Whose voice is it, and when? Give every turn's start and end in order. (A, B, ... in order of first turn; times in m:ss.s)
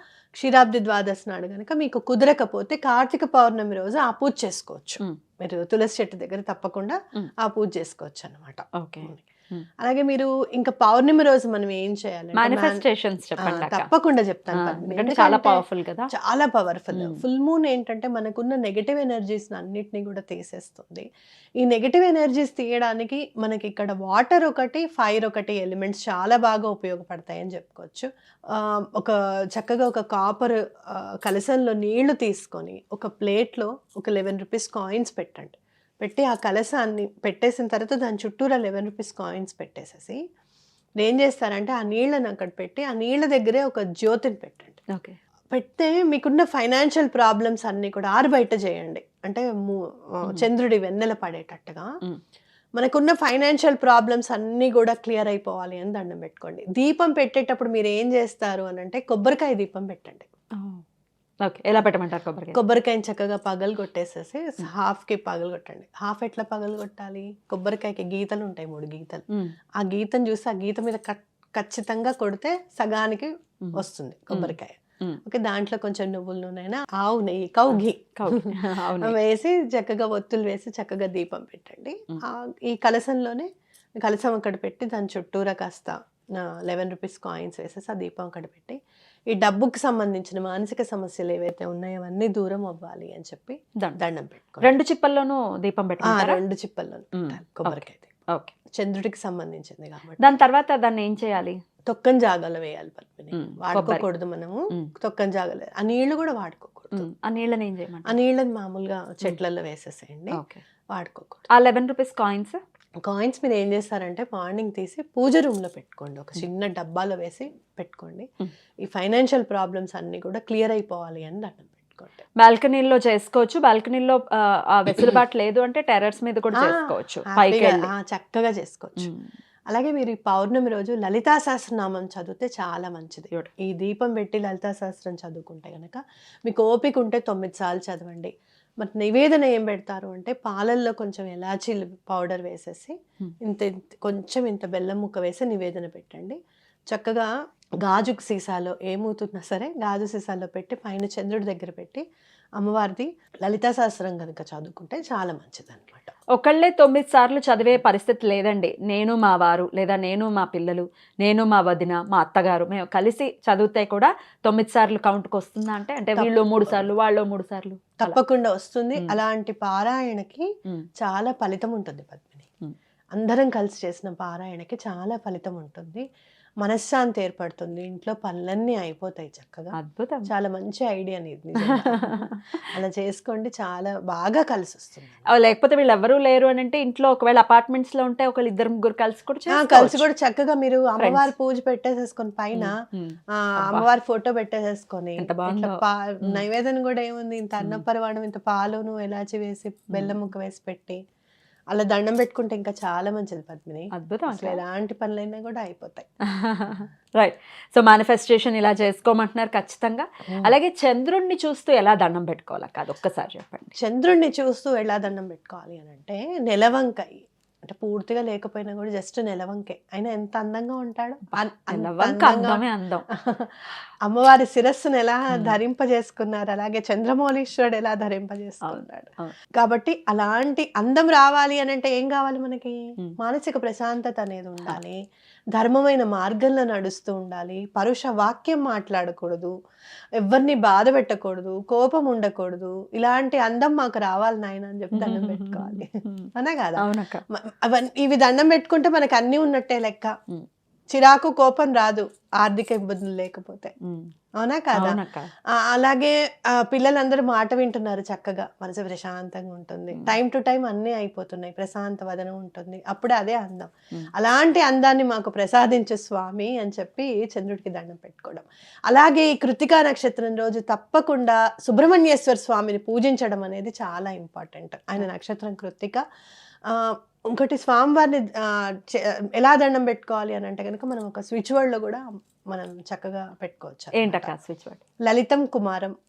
0:00.4-0:09.2 A
0:08.8-0:09.7 B
0:09.8-0:12.8 A
0:12.4-0:13.9 B
0:13.4-0:21.1 A
0:14.6-0:16.1 B
0:16.9-0:17.2 B
0:21.6-0:40.2 A
0:41.0-0:44.8 A
0:45.5-0:51.9 A
0:52.8-1:00.3 A
1:00.6-1:00.8 B
1:01.4-1:02.6 B
1:02.5-1:09.2 A
1:09.8-1:23.5 A
1:13.6-1:15.2 B
1:17.7-1:19.2 B
1:24.0-1:28.8 A
1:29.3-1:34.7 A
1:34.6-1:36.4 B
1:36.0-1:38.2 A
1:37.2-1:38.5 B
1:38.8-1:40.4 A
1:40.2-1:41.6 B
1:41.9-1:47.1 A
1:43.3-1:44.1 B
1:46.9-1:48.2 B
1:48.0-1:50.4 A
1:50.3-1:50.6 B
1:50.9-1:51.5 A
1:51.5-1:52.6 B
1:53.0-1:58.3 A
1:58.8-2:02.2 A
2:02.4-2:07.9 B
2:06.5-2:09.1 A
2:09.0-2:09.3 B
2:09.7-2:26.4 A
2:26.9-2:27.3 A
2:27.8-2:32.0 A
2:32.6-2:36.1 A
2:36.3-2:48.2 B
2:46.2-2:46.9 A
2:48.0-2:50.5 A
2:51.0-2:52.5 A
2:53.2-2:56.0 A
2:56.6-2:59.7 A
2:59.8-3:00.3 B
3:00.3-3:02.2 A
3:01.6-3:02.6 B
3:02.7-3:05.2 A
3:05.3-3:10.1 B
3:09.5-3:12.7 A
3:11.0-3:11.3 B
3:12.6-3:13.9 B
3:13.4-3:21.0 A
3:15.2-3:16.4 B
3:21.7-3:26.1 A
3:23.9-3:24.6 B
3:26.3-3:33.8 B
3:33.8-3:42.6 A
3:41.3-3:43.1 B
3:43.1-3:55.0 A
3:45.3-3:45.6 B
3:48.6-3:49.3 B
3:55.6-3:59.5 A
4:00.2-4:10.2 A
4:04.9-4:07.2 B
4:10.9-4:13.7 A
4:13.8-4:14.1 B
4:14.4-4:15.0 A
4:14.8-4:15.3 B
4:15.5-4:36.0 A
4:36.7-4:44.3 A
4:44.0-4:44.8 B
4:45.0-4:45.9 A